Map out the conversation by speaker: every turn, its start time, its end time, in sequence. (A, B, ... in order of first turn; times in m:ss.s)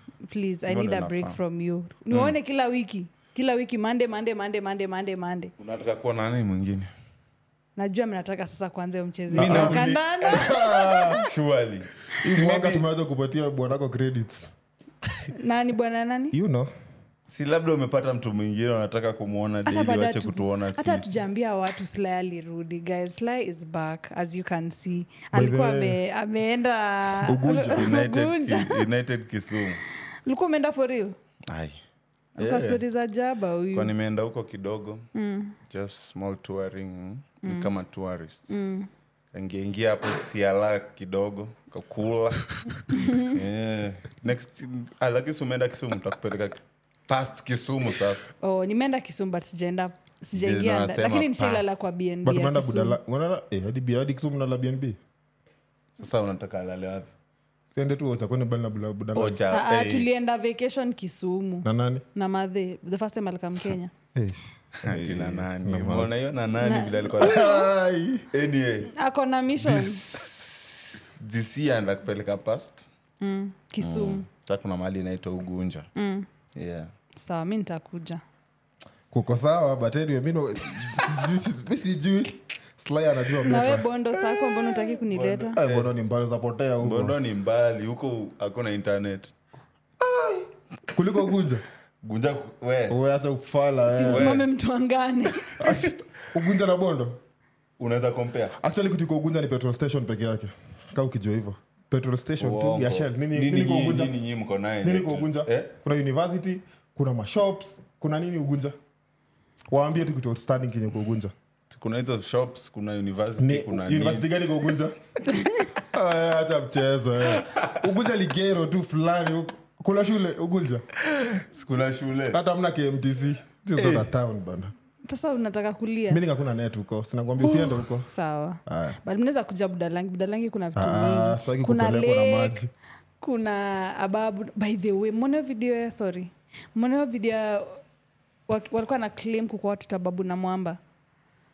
0:00.2-0:05.5 A
0:00.7-0:01.4 B
0:05.6-0:06.9 B
0:07.8-0:11.2 A
0:09.3-0:11.3 C
0:09.3-0:12.8 B
0:12.2-0:14.5 C
0:15.3-0:16.4 A
0:16.3-0:16.7 C
0:17.3-0:21.2 B
0:19.6-0:28.9 A
0:25.3-0:26.0 C
0:27.2-0:27.9 C
0:27.7-0:29.8 B
0:30.2-0:31.2 A
0:31.5-0:31.8 B
0:32.4-0:33.9 A
0:32.4-0:32.8 B
0:33.7-0:35.0 B
0:35.1-0:35.6 A
0:35.6-0:38.5 B
0:37.4-0:37.7 A
0:38.5-0:38.9 A
0:39.3-0:42.6 B
0:42.9-0:43.4 A
0:43.2-0:48.3 B
0:48.4-0:53.0 A
0:50.3-0:51.8 B
0:52.2-0:55.0 C
0:56.0-0:57.1 B
0:57.7-0:59.4 C
0:59.1-1:00.1 B
0:59.5-1:03.9 A
1:01.6-1:02.0 C
1:04.1-1:06.1 C
1:04.8-1:07.4 B
1:06.6-1:07.7 A
1:07.2-1:08.3 C
1:08.3-1:08.9 B
1:08.9-1:10.0 A
1:09.6-1:12.9 B
1:13.2-1:14.2 A
1:13.8-1:15.9 B
1:16.0-1:16.3 A
1:16.5-1:16.9 B
1:17.1-1:18.2 A
1:19.1-1:23.8 C
1:23.4-1:25.6 A
1:24.2-1:25.9 B
1:25.1-1:27.2 C
1:26.8-1:29.3 B
1:30.1-1:30.4 C
1:30.9-1:31.6 C
1:32.0-1:33.0 B
1:32.9-1:34.4 C
1:33.9-1:35.8 A
1:34.1-1:34.4 B
1:35.6-1:36.0 B
1:35.6-1:37.2 C
1:37.8-1:38.5 B
1:38.6-1:44.1 C
1:42.4-1:45.7 B
1:44.8-1:48.7 C
1:49.7-1:51.3 C
1:51.7-1:54.3 B
1:53.4-1:55.0 C
1:55.3-1:55.7 A
1:55.8-2:00.8 C
1:57.3-1:57.8 B
2:01.0-2:02.4 B
2:02.3-2:04.7 C
2:03.7-2:04.1 B
2:05.0-2:06.2 A
2:06.1-2:08.1 C
2:07.4-2:12.6 A
2:08.6-2:09.0 C
2:10.8-2:12.7 C
2:13.2-2:17.8 A
2:18.5-2:20.8 A